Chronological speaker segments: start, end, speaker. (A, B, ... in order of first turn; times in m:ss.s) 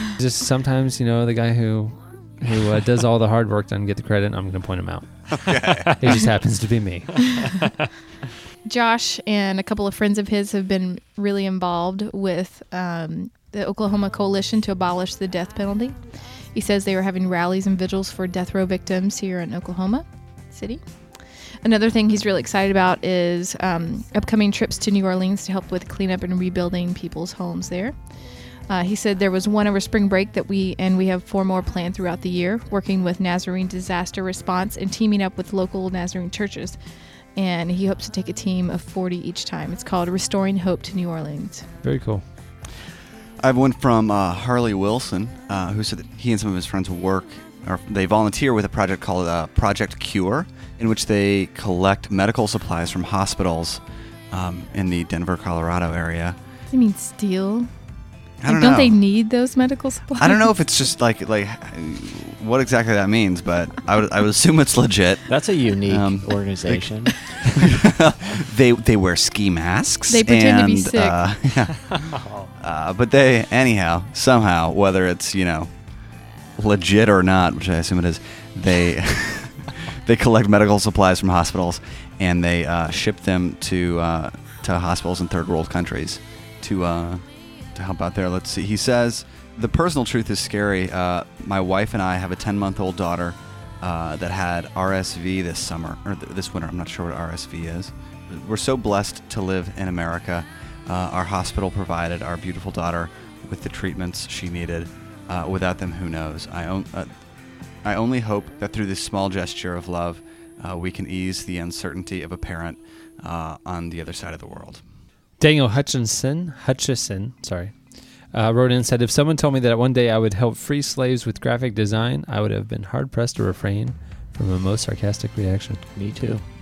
0:00.2-0:05.1 A
0:05.3-0:06.1 B
0:06.0-0:07.4 A
0:08.6-0:16.0 C
0:16.5-0:20.8 C
0:21.6-0:27.9 C
0:28.7-0:36.8 C
0:37.4-0:41.7 C
0:41.8-0:42.2 A
0:43.4-0:56.4 B
0:56.7-0:57.7 C
0:58.4-0:59.0 B
0:58.4-1:00.5 C
1:00.1-1:05.3 B
1:05.3-1:07.6 D
1:05.8-1:15.7 B
1:10.1-1:11.2 C
1:12.1-1:12.5 D
1:16.6-1:47.1 B
1:47.8-1:54.8 B
1:55.4-1:57.7 A
1:58.3-2:05.8 A
2:05.9-2:06.4 D